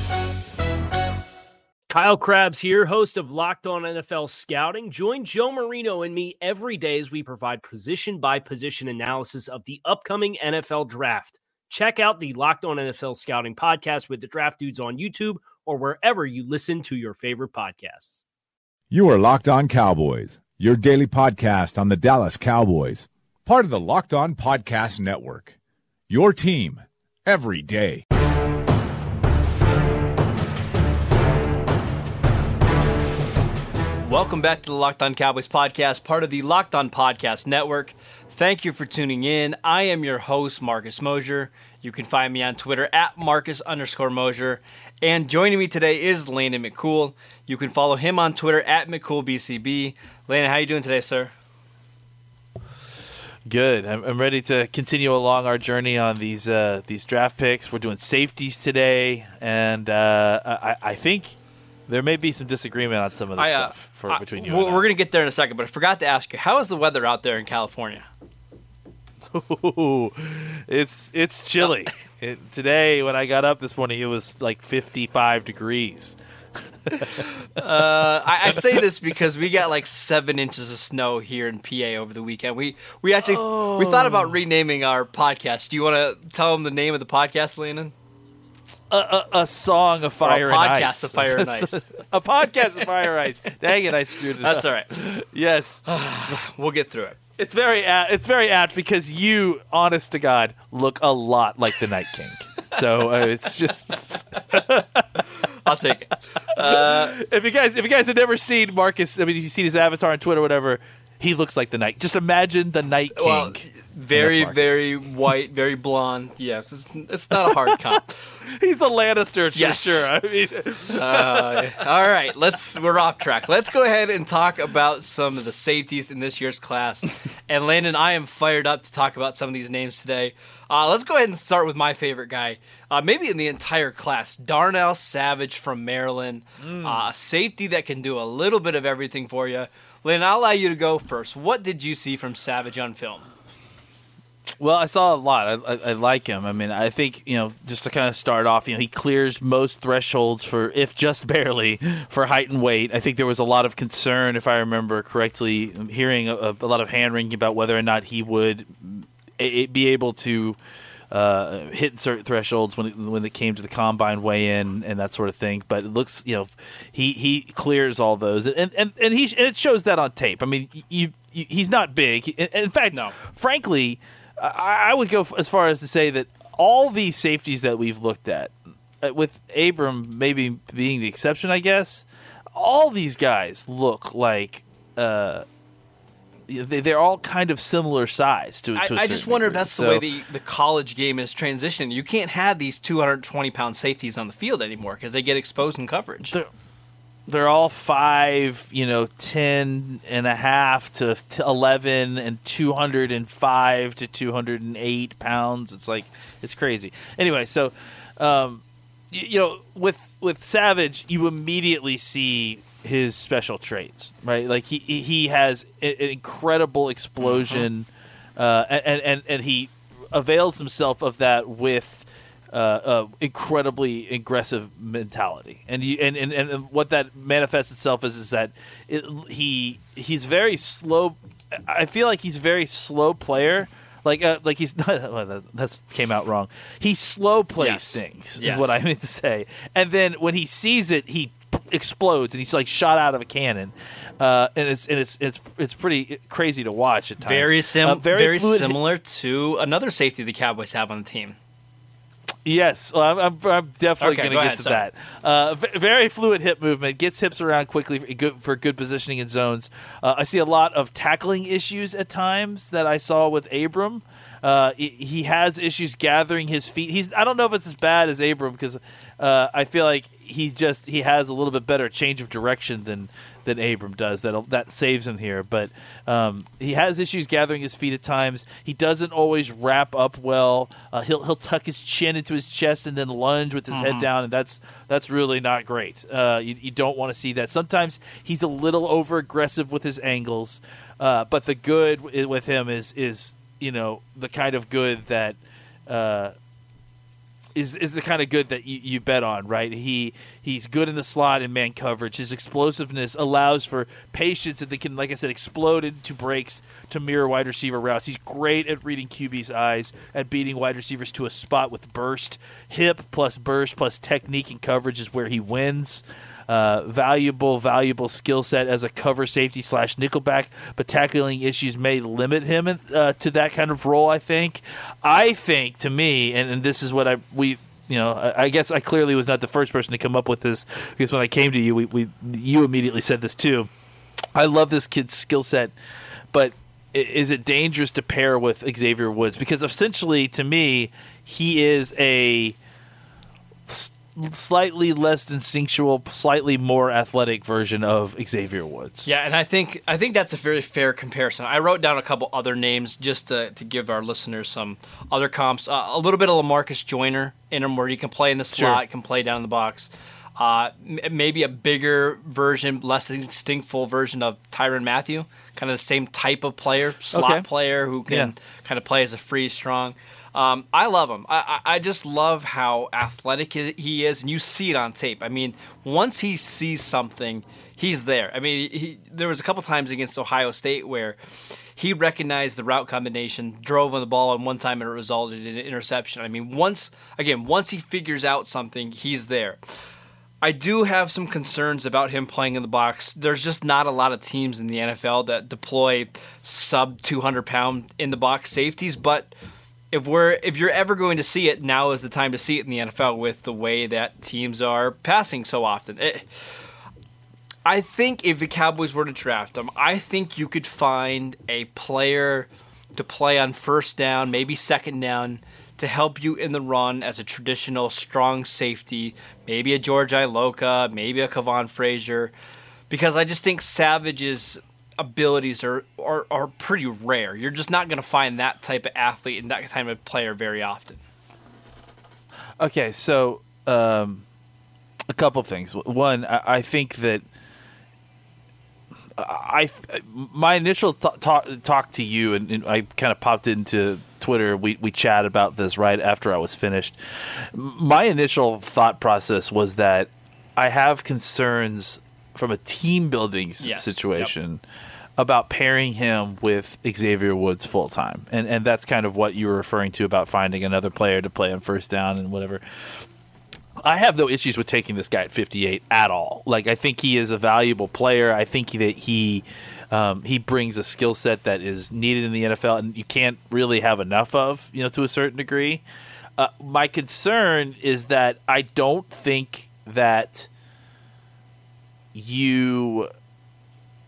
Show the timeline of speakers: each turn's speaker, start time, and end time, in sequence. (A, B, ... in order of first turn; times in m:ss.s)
0:01.9-0:18.2 A
0:18.9-0:25.6 B
0:26.1-0:28.0 B
0:34.0-0:51.3 C
0:53.5-1:01.3 D
1:01.9-1:04.9 D
1:03.4-1:08.1 C
1:09.3-1:16.2 D
1:16.9-1:17.3 D
1:17.2-1:27.9 C
1:23.2-1:24.4 D
1:28.9-1:35.8 D
1:30.2-1:31.9 C
1:34.4-1:34.9 C
1:35.9-1:37.2 C
1:37.4-1:45.2 D
1:45.5-1:47.2 C
1:46.6-1:53.6 D
1:53.2-1:58.2 C
1:54.1-1:54.8 D
1:57.7-2:01.8 D
1:59.5-2:00.1 C
2:00.9-2:23.2 C
2:16.6-2:16.9 D
2:24.6-2:40.6 D
2:41.1-3:05.4 D
3:06.5-3:10.0 D
3:08.8-3:16.3 C
3:17.3-4:08.8 D
3:37.2-3:37.7 C
3:57.6-3:58.7 C
4:07.2-4:11.4 C
4:12.4-4:55.4 D
4:14.0-4:14.8 C
4:43.7-4:44.1 C
4:55.9-4:56.3 D
4:57.6-5:33.7 D
5:34.4-5:35.7 D
5:36.3-5:42.6 D
5:43.7-5:49.1 D
5:49.1-6:21.2 C
5:58.5-5:58.8 D
6:07.1-6:07.5 D
6:21.8-6:29.6 C
6:30.4-6:39.3 C
6:39.9-6:46.3 C
6:47.6-7:02.3 C
7:02.9-7:11.0 C
7:12.6-7:14.2 D
7:15.1-7:17.2 D
7:19.2-7:34.6 D
7:33.6-7:34.3 C
7:35.2-7:43.0 D
7:43.8-7:55.8 D
7:56.4-8:00.5 D
8:02.1-8:03.1 D